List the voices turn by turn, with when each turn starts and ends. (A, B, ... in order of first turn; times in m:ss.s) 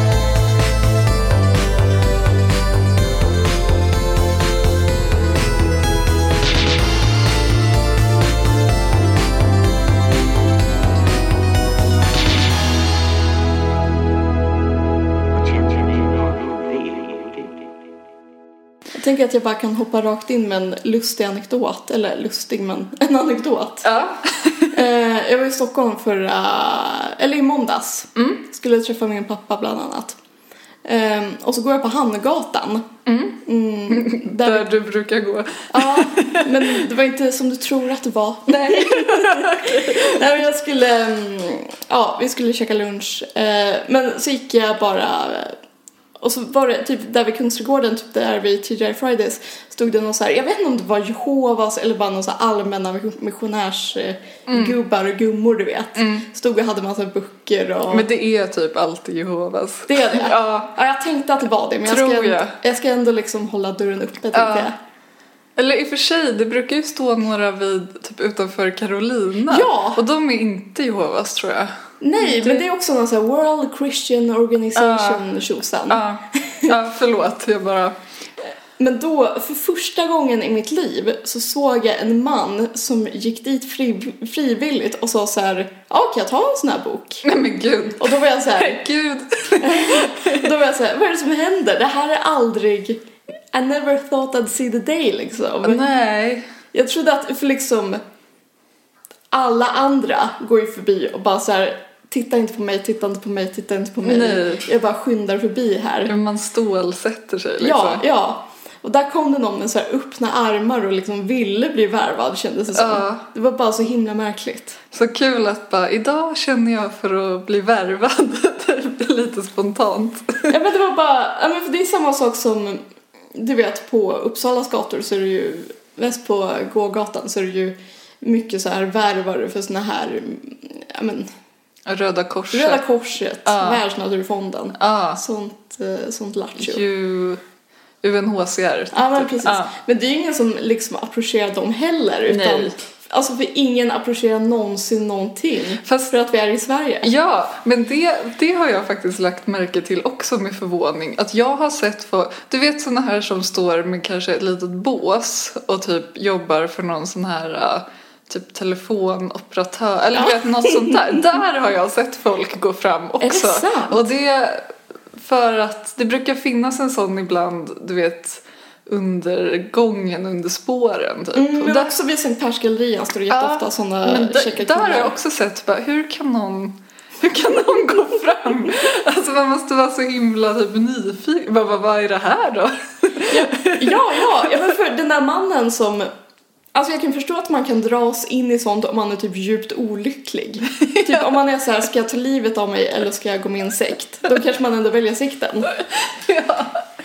0:15.3-0:17.6 A
0:19.0-0:23.9 B
0:23.8-0:24.8 C
0:24.7-0:30.2 B
0:28.2-0:28.4 C
0:30.8-0:32.8 B
0:33.0-0:36.8 C
0:33.4-0:34.7 B
0:35.7-0:45.6 B
0:38.5-0:40.2 C
0:46.2-0:58.1 B
0:54.5-0:54.8 C
0:56.0-0:56.3 C
0:57.9-1:00.7 C
0:59.9-1:04.8 B
1:01.8-1:02.5 C
1:04.3-1:04.7 C
1:05.6-1:12.7 C
1:09.5-1:10.0 B
1:12.0-1:16.8 B
1:14.8-1:15.3 C
1:15.9-1:18.0 C
1:18.8-1:27.2 B
1:27.2-1:30.5 C
1:28.0-1:28.8 B
1:29.6-1:33.0 B
1:33.5-1:35.8 B
1:35.6-1:36.5 C
1:36.7-1:38.0 B
1:39.3-1:46.1 B
1:44.0-1:44.7 C
1:46.1-1:48.0 C
1:47.6-1:54.8 B
1:52.7-1:53.2 C
1:54.9-2:00.6 C
2:00.5-2:02.8 B
2:03.3-2:11.3 B
2:11.9-2:12.8 C
2:12.5-2:16.8 B
2:13.4-2:13.8 C
2:14.8-2:15.2 C
2:16.6-2:17.4 C
2:18.0-2:19.7 C
2:18.9-2:27.1 B
2:22.3-2:22.8 C
2:25.8-2:26.1 C
2:27.0-2:51.9 C
2:40.2-2:41.0 B
2:43.2-2:44.1 B
2:51.3-2:55.2 B
2:53.3-3:04.7 C
3:03.3-3:06.1 B
3:06.7-3:15.7 B
3:10.8-3:11.3 C
3:15.7-3:16.9 C